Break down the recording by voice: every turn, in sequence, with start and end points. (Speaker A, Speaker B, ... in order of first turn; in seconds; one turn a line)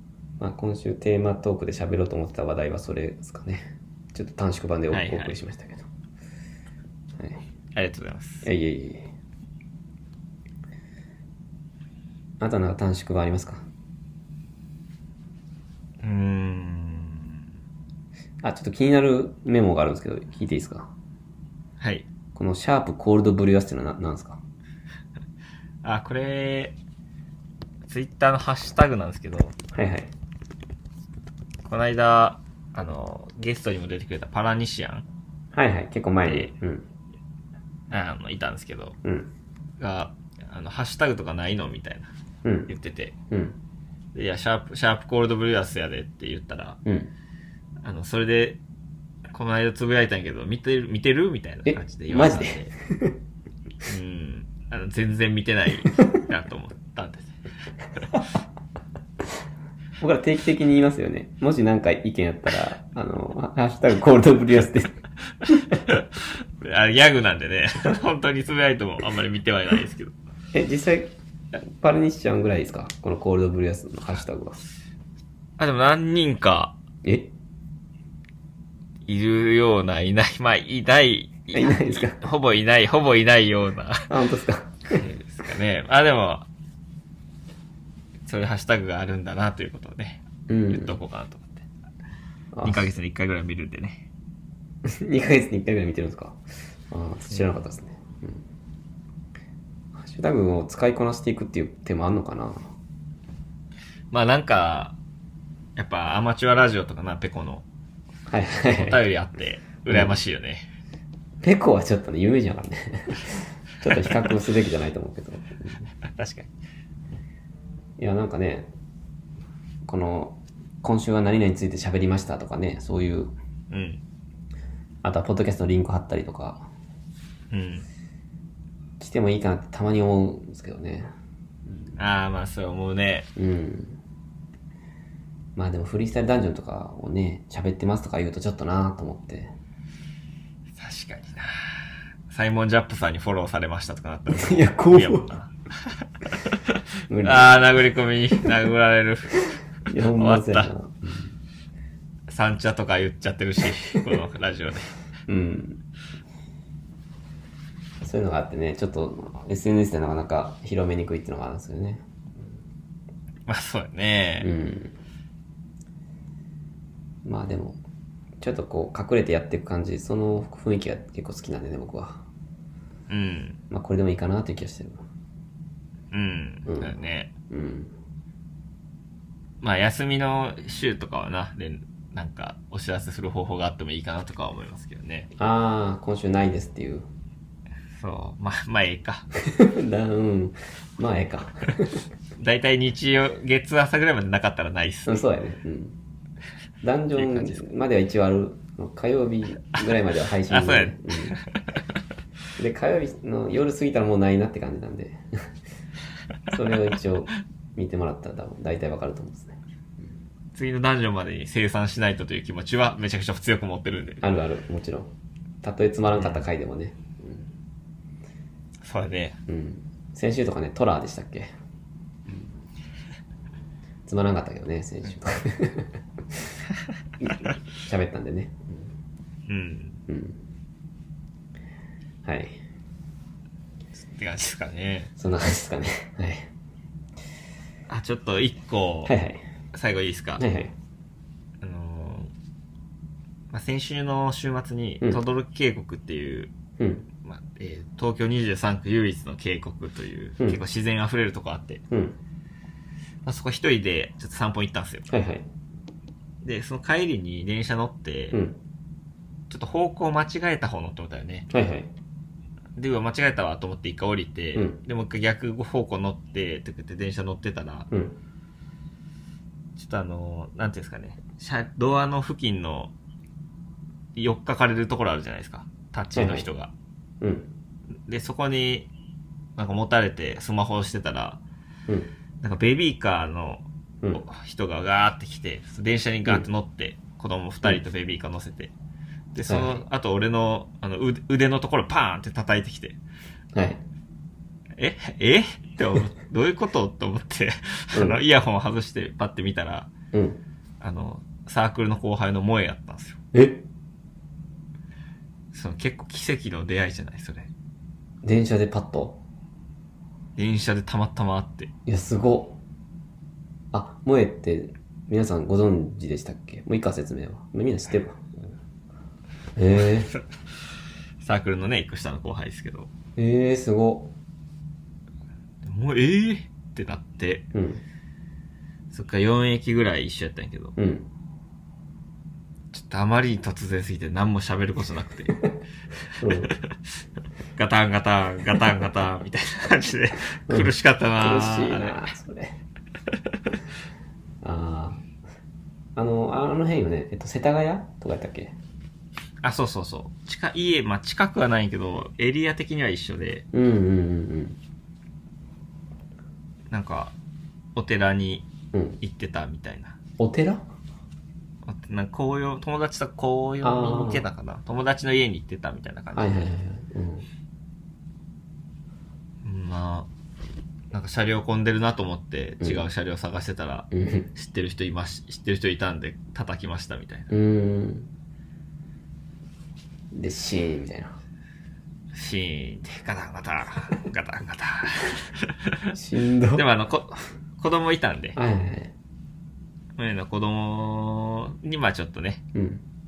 Speaker A: 0.4-5.9
Speaker B: 4.9-5.3
Speaker B: 7.7-8.5
Speaker A: 8.4-9.1
Speaker A: 12.4-13.6
Speaker B: 16.0-17.4
Speaker A: 18.4-20.9
Speaker B: 21.8-22.1
Speaker A: 22.3-24.4
Speaker B: 25.8-26.8
Speaker B: 27.9-29.5
Speaker A: 29.7-30.1
Speaker B: 31.7-35.0
Speaker A: 35.5-36.9
Speaker B: 36.2-36.5
Speaker B: 37.9-39.0
Speaker A: 39.0-39.3
Speaker B: 39.8-42.1
Speaker A: 42.4-42.7
Speaker B: 42.7-43.1
Speaker A: 43.3-43.6
Speaker B: 44.1-46.8
Speaker A: 46.8-47.1
Speaker B: 47.8-48.6
Speaker B: 49.3-52.7
Speaker A: 51.6-53.1
Speaker B: 53.9-57.3
Speaker A: 60.0-65.0
Speaker B: 65.7-70.1
Speaker A: 70.5-74.6
Speaker B: 75.6-76.8
Speaker A: 77.0-77.3
Speaker B: 79.0-84.1
Speaker A: 81.5-82.2
Speaker A: 84.1-85.0
Speaker B: 84.9-86.5
Speaker B: 88.2-91.6
Speaker A: 90.5-91.0
Speaker A: 92.5-92.9
Speaker B: 92.6-94.0
Speaker A: 94.8-98.4
Speaker A: 99.9-102.7
Speaker B: 104.1-105.0
Speaker B: 105.8-107.7
Speaker A: 108.3-109.0
Speaker B: 108.7-110.7
Speaker A: 109.9-110.2
Speaker A: 111.4-115.9
Speaker B: 116.1-116.5
Speaker A: 118.0-118.7
Speaker A: 119.8-123.3
Speaker B: 123.7-124.0
Speaker A: 125.0-126.7
Speaker B: 127.5-127.8
Speaker A: 129.0-131.1
Speaker B: 131.9-133.3
Speaker A: 133.3-134.0
Speaker A: 135.6-139.5
Speaker B: 140.8-150.7
Speaker A: 144.3-145.3
Speaker A: 147.1-147.6
Speaker A: 149.9-151.3
Speaker B: 152.3-154.9
Speaker A: 155.3-155.8
Speaker A: 158.0-162.5
Speaker B: 163.5-164.5
Speaker A: 164.4-164.9
Speaker A: 167.2-167.8
Speaker A: 168.4-172.2
Speaker B: 173.1-173.6
Speaker A: 173.7-175.0
Speaker B: 176.1-177.3
Speaker A: 176.6-177.9
Speaker B: 179.6-185.3
Speaker A: 185.4-187.1
Speaker B: 187.9-189.3
Speaker A: 189.4-192.0
Speaker B: 192.4-195.2
Speaker A: 195.1-196.0
Speaker A: 196.8-201.4
Speaker B: 197.1-197.6
Speaker B: 200.5-201.4
Speaker A: 202.6-205.5
Speaker A: 206.5-210.1
Speaker B: 210.5-214.2
Speaker A: 214.2-217.5
Speaker B: 216.1-216.4
Speaker B: 218.8-219.4
Speaker A: 219.5-221.5
Speaker A: 224.1-226.5
Speaker A: 227.2-228.9
Speaker B: 229.5-230.0
Speaker A: 230.1-230.4
Speaker A: 232.2-232.6
Speaker B: 234.0-235.1
Speaker A: 235.2-236.5
Speaker B: 237.9-239.1
Speaker A: 239.1-239.4
Speaker B: 239.7-240.4
Speaker A: 240.4-240.7
Speaker B: 241.6-242.3
Speaker B: 243.5-246.5
Speaker A: 246.8-247.1
Speaker B: 247.2-251.8
Speaker A: 251.9-252.2
Speaker B: 253.2-255.1
Speaker A: 255.1-255.4
Speaker B: 256.4-258.4
Speaker A: 258.3-258.6
Speaker B: 259.5-261.5
Speaker A: 261.5-261.9
Speaker B: 262.8-267.9
Speaker A: 267.9-268.1
Speaker B: 269.8-272.9
Speaker B: 274.1-276.7
Speaker A: 276.1-276.4
Speaker A: 277.2-277.5
Speaker B: 278.1-278.9
Speaker B: 279.6-281.4
Speaker B: 282.4-288.7
Speaker B: 289.3-293.0
Speaker A: 289.4-289.8
Speaker A: 293.5-293.8
Speaker B: 294.8-299.9
Speaker A: 297.9-298.2
Speaker A: 300.1-300.4
Speaker B: 300.8-303.2
Speaker A: 303.3-303.6
Speaker B: 305.5-307.5
Speaker A: 308.2-309.2
Speaker B: 310.4-311.7
Speaker A: 311.9-312.6
Speaker A: 313.7-318.6
Speaker A: 319.6-320.1
Speaker B: 321.2-322.9
Speaker A: 323.2-324.1
Speaker B: 325.6-327.5
Speaker A: 327.5-327.8
Speaker B: 328.9-330.7
Speaker A: 330.8-331.1
Speaker B: 332.7-335.4
Speaker A: 336.2-336.5
Speaker B: 336.3-336.7
Speaker B: 337.6-342.0
Speaker A: 340.5-342.6
Speaker A: 344.4-345.0
Speaker A: 345.9-348.6
Speaker B: 349.4-353.5
Speaker A: 353.5-354.6
Speaker B: 356.7-357.1
Speaker B: 357.7-360.0
Speaker A: 358.7-359.0
Speaker A: 360.2-360.6
Speaker B: 361.6-366.5
Speaker A: 363.6-364.2
Speaker A: 366.1-367.3
Speaker B: 369.4-370.1
Speaker B: 370.9-377.3
Speaker A: 373.9-374.3
Speaker A: 377.3-378.1
Speaker A: 380.1-381.1
Speaker B: 382.1-385.9
Speaker A: 385.9-386.6
Speaker B: 386.5-388.4
Speaker A: 388.4-388.9
Speaker B: 390.0-392.4
Speaker A: 392.5-392.8